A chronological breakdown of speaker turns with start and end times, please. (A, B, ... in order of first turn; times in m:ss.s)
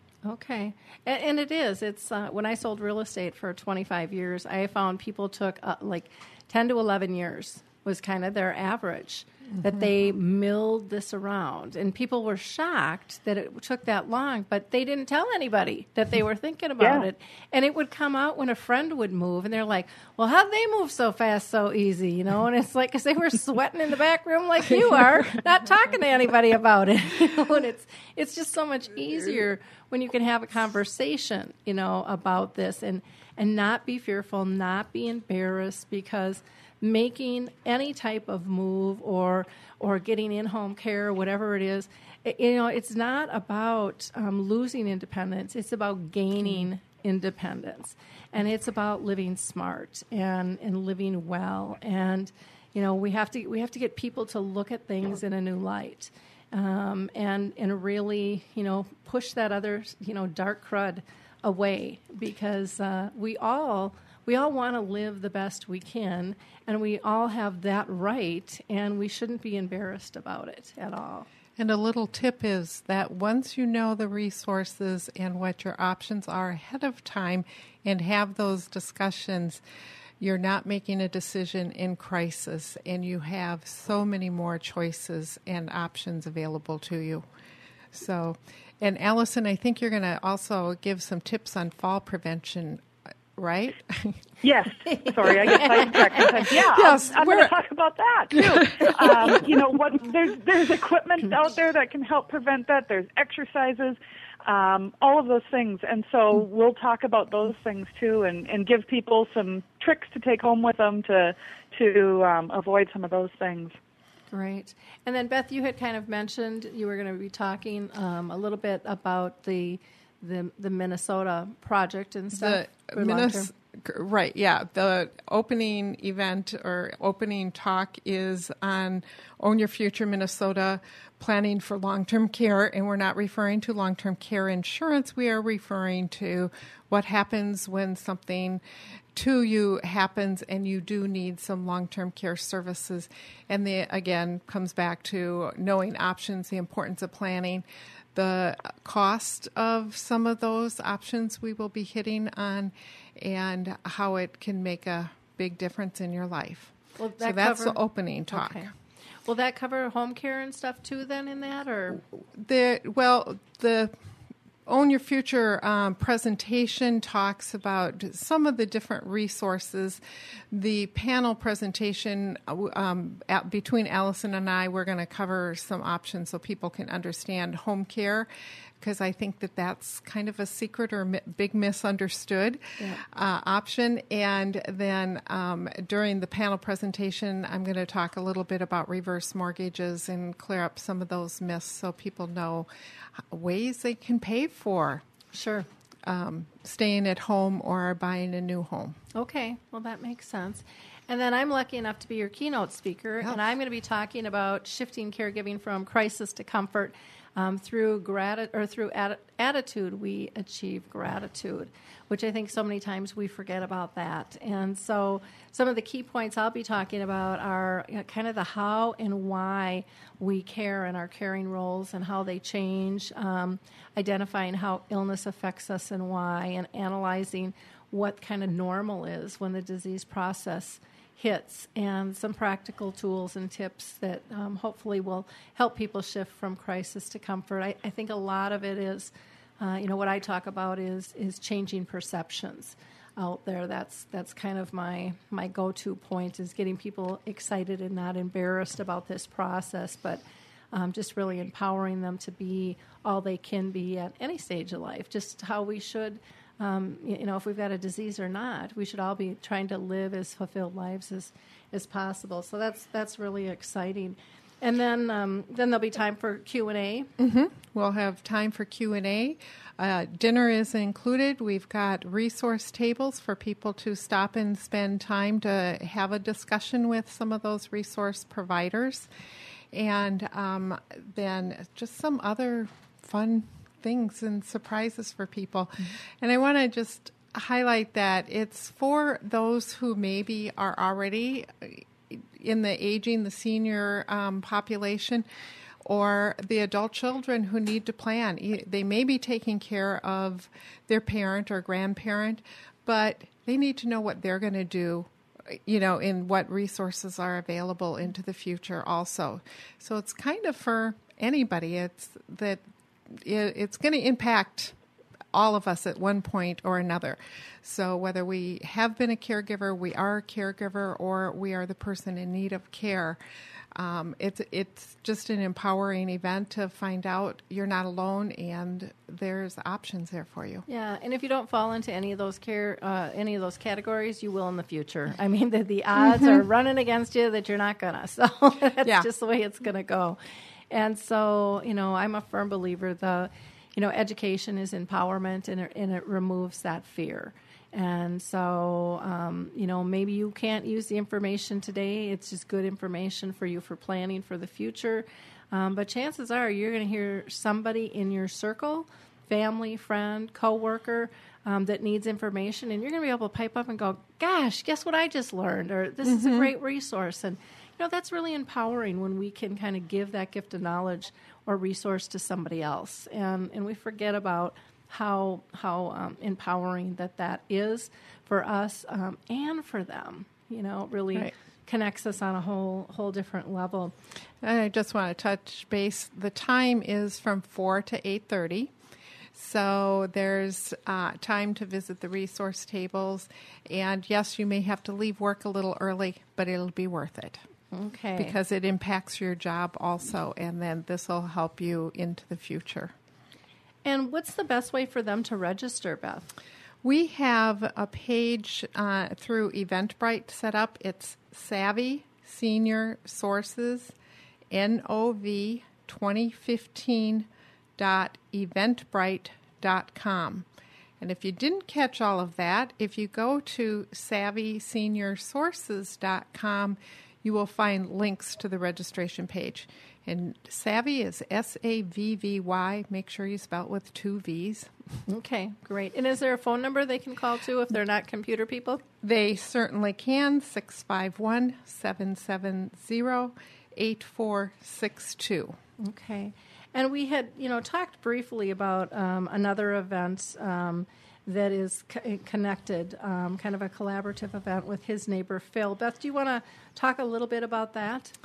0:00.2-1:11.3 A
1:11.6-1:19.6 B
1:20.2-1:27.2 B
1:27.9-1:32.8 B
1:33.4-1:34.2 B
1:34.4-1:53.8 C
1:34.9-1:36.4 A
1:36.6-1:37.5 B
1:38.3-1:39.4 B
1:54.3-2:03.5 A
2:02.3-2:18.6 B
2:19.1-2:38.7 B
2:37.0-2:38.7 A
2:39.2-2:42.0 A
2:42.3-2:43.9 B
2:44.6-2:50.0 B
2:50.5-2:58.3 B
2:58.8-3:15.0 B
3:15.3-3:15.6 A
3:16.0-3:19.0 B
3:19.1-4:27.1 A
4:27.2-4:39.1 B
4:39.7-4:55.2 B
4:55.8-5:14.8 B
5:15.3-5:23.2 B
5:23.7-5:30.6 B
5:30.7-5:40.2 A
5:40.7-6:23.9 A
6:06.0-6:06.5 B
6:24.4-6:28.7 B
6:29.3-6:37.4 B
6:37.7-6:38.4 A
6:38.2-6:42.9 B
6:43.8-6:46.3 A
6:46.8-6:53.9 B
6:54.5-7:00.4 B
7:01.0-7:14.7 B
7:15.1-7:18.8 A
7:19.0-7:25.6 B
7:25.8-7:38.1 A